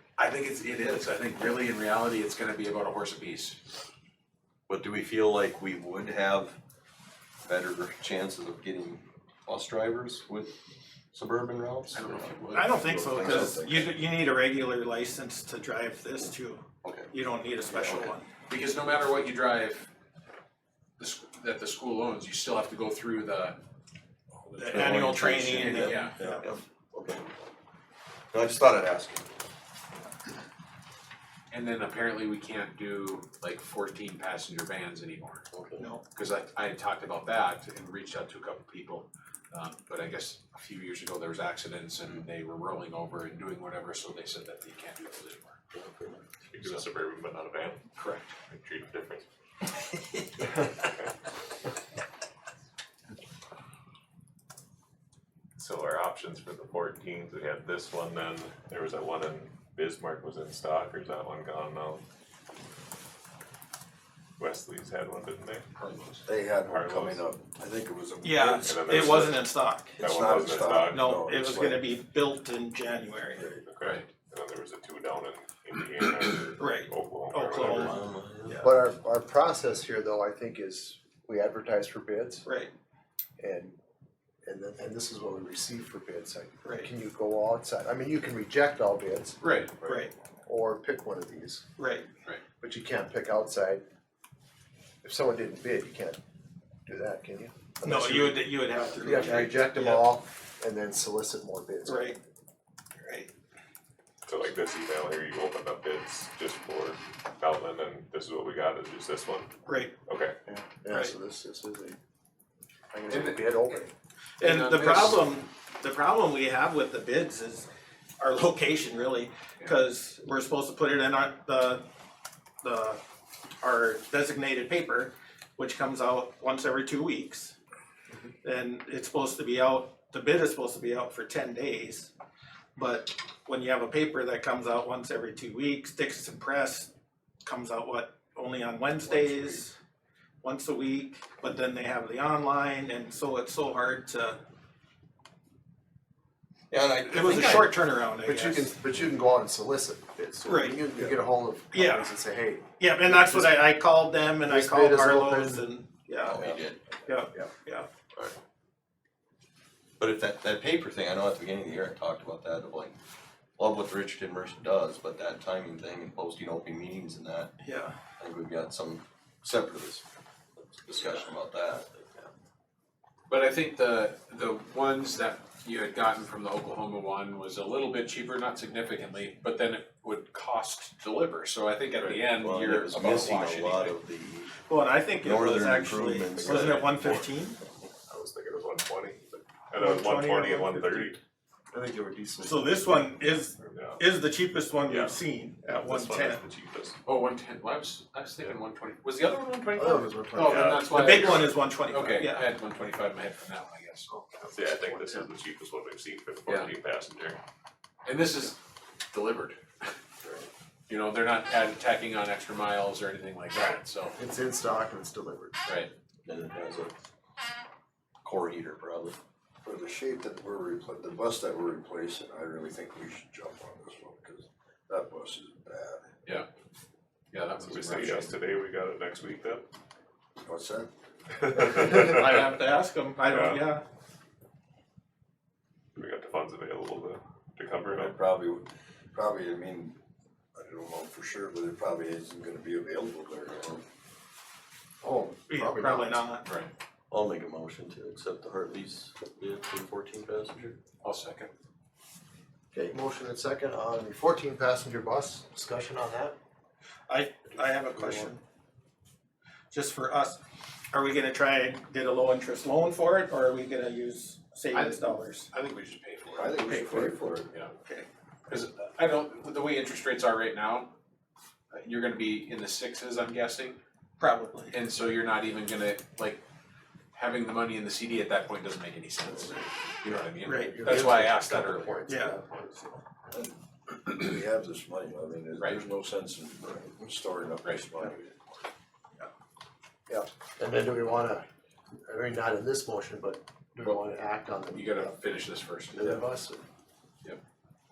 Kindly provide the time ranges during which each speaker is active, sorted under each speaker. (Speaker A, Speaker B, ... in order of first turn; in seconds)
Speaker A: 0.2-3.6, 11.9-12.8, 18.5-19.9, 21.0-23.6, 25.8-26.2, 31.5-35.5, 36.1-45.6, 48.0-48.3, 65.8-66.2, 89.4-89.8, 113.1-113.9, 114.4-115.2, 173.3-184.0, 197.1-204.1, 206.5-206.7, 208.1-208.6, 209.1-209.9, 210.9-214.2, 215.7-215.9, 227.3-228.4, 246.4-246.7, 251.0-251.5, 264.7-266.7, 268.5-270.9, 271.7-273.8, 274.7-276.4, 277.1-282.1, 285.6-285.8, 287.6-288.1, 294.7-296.1
Speaker B: 4.7-6.6, 7.4-10.6, 11.1-12.4, 13.0-13.9, 16.8-17.1, 17.7-18.1, 24.6-27.3, 28.3-29.3, 35.5-35.9, 45.7-46.5, 77.6-78.6, 146.7-147.7, 156.2-157.1, 160.0-163.0, 163.6-167.5, 168.2-170.1, 170.6-172.3, 182.0-184.6, 185.2-187.3, 216.2-216.9, 218.2-219.2, 247.1-250.8
Speaker C: 12.5-18.3, 24.6-26.5, 35.8-36.0, 68.2-69.9, 70.8-73.4, 76.6-78.7, 82.5-82.7, 86.6-86.9, 89.8-90.1, 91.8-92.1, 97.8-100.1, 101.8-102.2, 103.0-103.3, 109.7-109.9, 110.9-111.2, 114.4-117.7, 118.2-121.8, 122.6-123.0, 123.6-127.5, 128.4-132.1, 132.8-136.9, 137.4-139.8, 140.4-144.4, 147.1-148.7, 150.4-150.8, 151.7-152.1, 152.8-156.4, 157.1-157.9, 167.6-167.9, 184.6-187.6, 189.8-191.1, 192.4-196.4, 200.9-202.5, 231.8-233.8, 245.5-246.5, 257.1-258.4, 259.7-260.4, 260.9-265.5, 266.7-267.1, 267.8-268.1, 274.2-274.8, 280.5-282.4
Speaker D: 12.9-13.8, 66.3-69.3, 70.0-71.9, 139.0-139.6, 219.6-226.0, 230.4-230.9, 237.9-240.0, 240.5-243.8, 266.4-267.5, 283.3-288.4
Speaker E: 46.5-47.9, 48.4-49.3, 50.6-51.1, 55.6-62.0, 64.4-65.7, 66.6-67.2, 68.6-69.5, 70.0-71.2, 73.5-78.0, 104.3-109.5, 110.1-110.3, 188.1-191.2, 193.6-194.0, 194.9-197.0, 200.4-201.5, 204.4-207.4, 227.6-229.7, 231.4-232.5, 233.3-233.7, 236.0-238.2
Speaker F: 78.6-82.5, 83.4-83.8, 84.4-91.6, 92.6-93.8, 95.0-96.2, 96.9-102.2, 110.5-112.0, 112.9-113.9, 148.2-153.7, 154.5-155.7, 156.3-156.6, 191.7-192.9, 199.8-200.9, 214.2-215.7, 245.0-246.3, 252.7-256.4, 257.5-258.3, 266.7-267.1, 280.5-283.0, 290.1-291.4, 292.1-295.2, 295.9-296.7